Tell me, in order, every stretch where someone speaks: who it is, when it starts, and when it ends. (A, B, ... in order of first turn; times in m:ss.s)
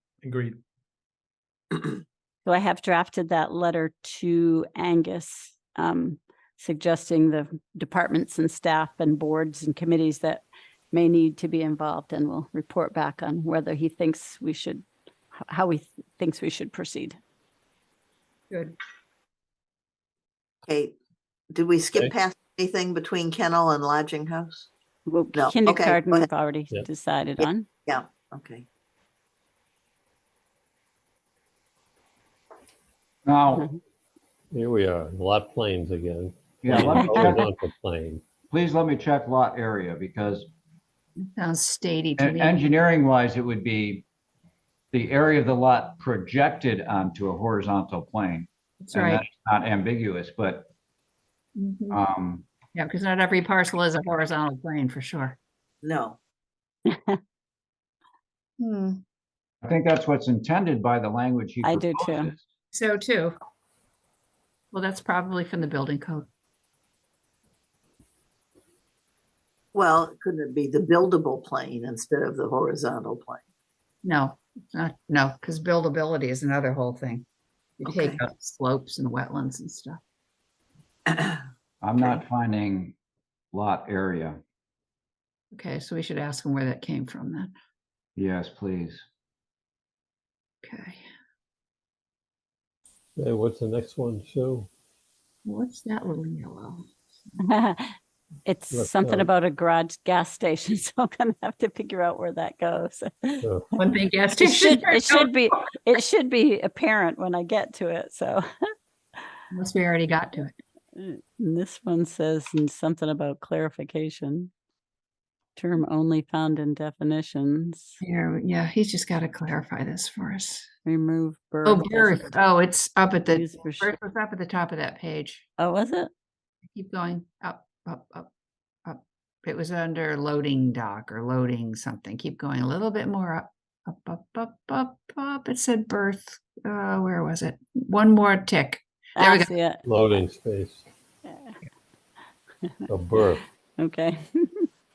0:02.4-0:14.8 A
0:15.5-0:17.2 A
0:18.5-0:18.8 B
0:20.7-0:21.0 C
0:21.5-0:24.7 C
0:25.1-0:27.7 A
0:25.3-0:26.3 C
0:27.4-0:28.7 C
0:33.3-0:33.7 D
0:33.5-0:33.8 A
0:34.5-0:38.2 E
0:36.6-0:37.4 D
0:36.8-0:37.3 A
0:38.5-0:40.5 D
0:41.3-0:42.6 B
0:42.2-0:44.0 D
0:44.9-0:50.7 D
0:48.8-0:49.2 B
0:51.6-0:52.0 B
0:51.9-0:52.5 D
0:52.8-0:55.4 B
0:55.8-0:56.2 C
0:56.9-0:57.2 A
0:58.6-0:59.0 B
0:59.6-1:02.4 D
1:01.6-1:02.3 A
1:02.7-1:03.4 B
1:04.7-1:06.3 B
1:09.7-1:13.4 C
1:14.0-1:17.2 B
1:17.8-1:20.0 B
1:17.9-1:18.2 C
1:21.1-1:21.4 C
1:21.8-1:23.0 D
1:23.5-1:24.4 D
1:25.5-1:27.5 B
1:28.2-1:29.0 D
1:30.6-1:31.0 B
1:33.2-1:34.7 E
1:35.4-1:36.9 B
1:37.4-1:43.5 A
1:38.7-1:39.3 E
1:43.4-1:43.7 E
1:43.8-1:45.3 B
1:44.4-1:48.5 A
1:49.5-1:50.6 B
1:51.0-1:54.5 A
1:55.6-1:58.0 A
1:58.0-2:00.7 B
2:00.8-2:02.4 A
2:01.6-2:05.4 B
2:03.3-2:04.0 A
2:05.6-2:06.1 A
2:06.8-2:08.3 B
2:08.8-2:19.5 B
2:19.2-2:20.0 A
2:19.8-2:20.8 E
2:21.2-2:21.6 A
2:22.9-2:23.4 E
2:23.3-2:24.7 A